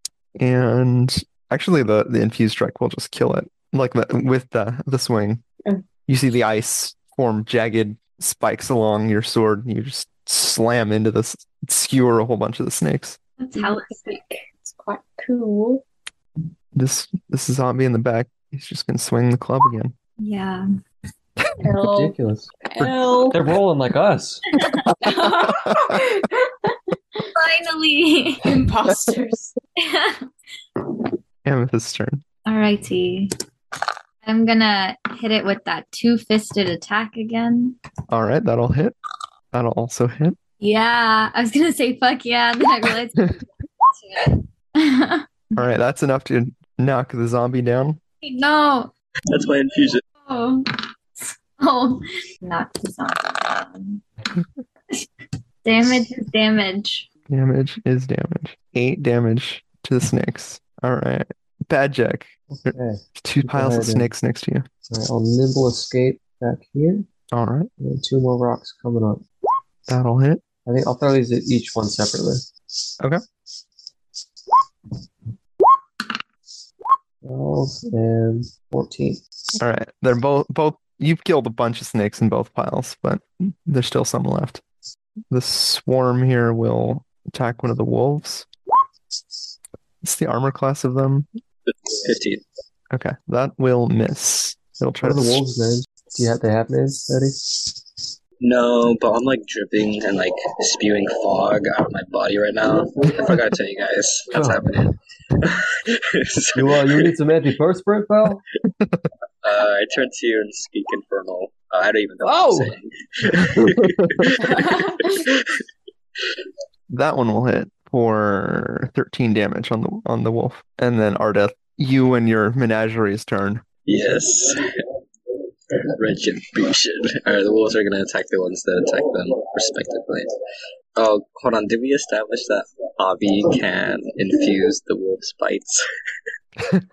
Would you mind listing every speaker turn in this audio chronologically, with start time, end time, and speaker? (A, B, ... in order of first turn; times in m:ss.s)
0:00.4-0:05.4 A
0:06.1-0:13.2 A
0:13.4-0:14.2 B
0:13.6-0:15.8 C
0:16.8-0:19.9 A
0:20.2-0:20.7 B
0:21.6-0:23.4 C
0:21.9-0:22.5 D
0:22.8-0:23.1 A
0:23.3-0:24.4 D
0:25.0-0:27.2 C
0:25.1-0:26.0 A
0:27.4-0:28.6 B
0:28.4-0:29.6 C
0:29.8-0:30.3 B
0:31.4-0:32.2 A
0:32.5-0:33.3 B
0:34.2-0:37.8 B
0:38.1-0:39.0 A
0:39.5-0:40.4 A
0:40.6-0:43.3 B
0:44.0-0:45.6 B
0:45.6-0:48.0 A
0:48.2-0:48.9 B
0:49.3-0:50.0 E
0:50.3-0:54.0 B
0:55.6-0:57.1 B
0:57.3-1:04.7 A
1:02.5-1:04.1 D
1:04.9-1:07.1 D
1:07.3-1:07.7 A
1:07.8-1:09.2 D
1:09.9-1:10.4 A
1:10.6-1:12.5 D
1:17.2-1:19.2 D
1:19.6-1:24.6 A
1:25.3-1:28.5 A
1:30.0-1:31.3 A
1:31.7-1:32.4 E
1:32.9-1:35.4 A
1:35.0-1:37.8 D
1:38.4-1:47.1 E
1:44.3-1:44.9 D
1:46.6-1:48.4 D
1:49.4-1:55.6 E
1:52.2-1:52.8 D
1:53.3-1:54.3 A
1:54.4-1:55.3 C
1:56.9-2:03.6 A
2:03.9-2:04.8 E
2:06.0-2:10.3 E
2:11.0-2:15.8 E